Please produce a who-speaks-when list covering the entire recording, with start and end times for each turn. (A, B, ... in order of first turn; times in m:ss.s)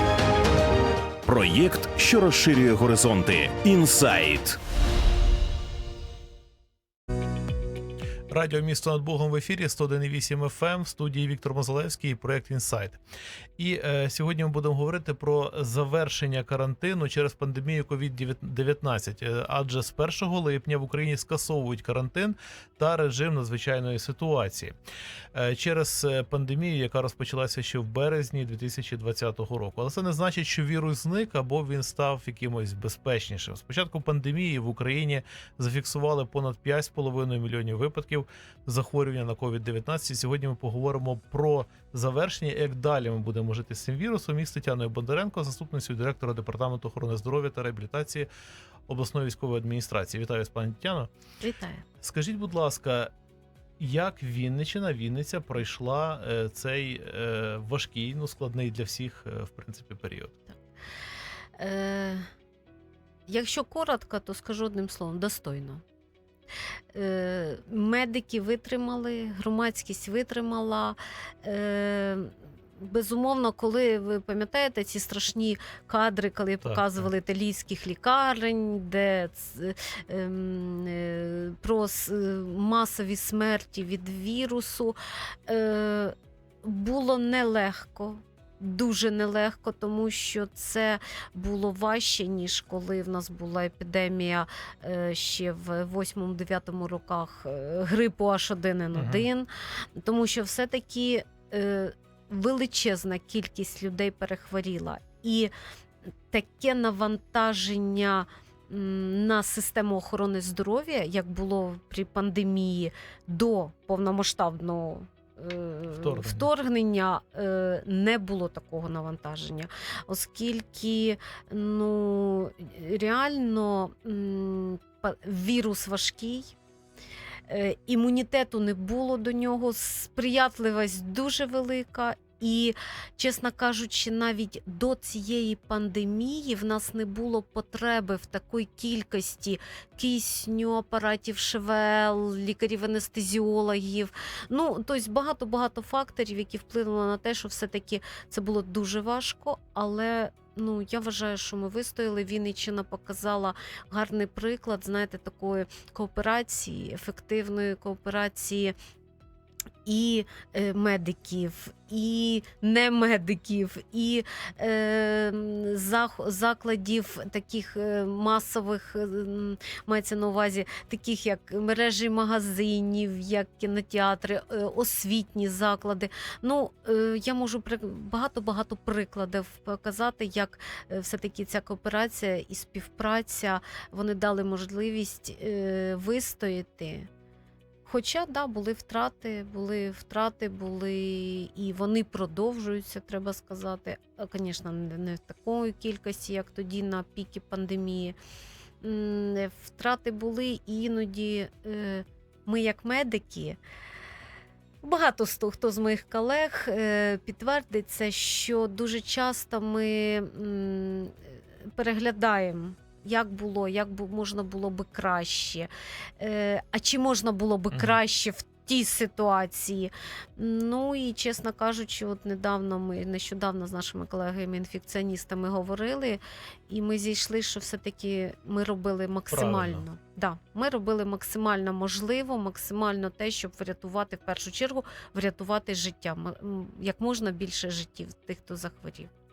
0:01.2-0:04.6 A
0:08.3-0:13.0 B
0:13.6-0:24.7 B
0:25.3-0:48.3 B
0:48.9-0:51.1 B
0:51.4-0:51.8 C
0:52.0-0:53.1 B
0:53.8-1:00.4 B
1:01.6-1:02.3 C
1:03.3-1:05.8 C
1:06.9-1:45.5 C
1:16.6-1:17.1 B
1:38.9-1:39.3 B
1:46.3-2:06.5 C
1:55.9-1:56.5 B
2:07.5-2:38.7 C
2:39.8-3:07.1 C
3:07.8-3:18.2 C
3:18.8-3:23.6 C
3:24.8-3:59.1 C
3:37.7-3:38.0 B
3:49.3-3:49.8 B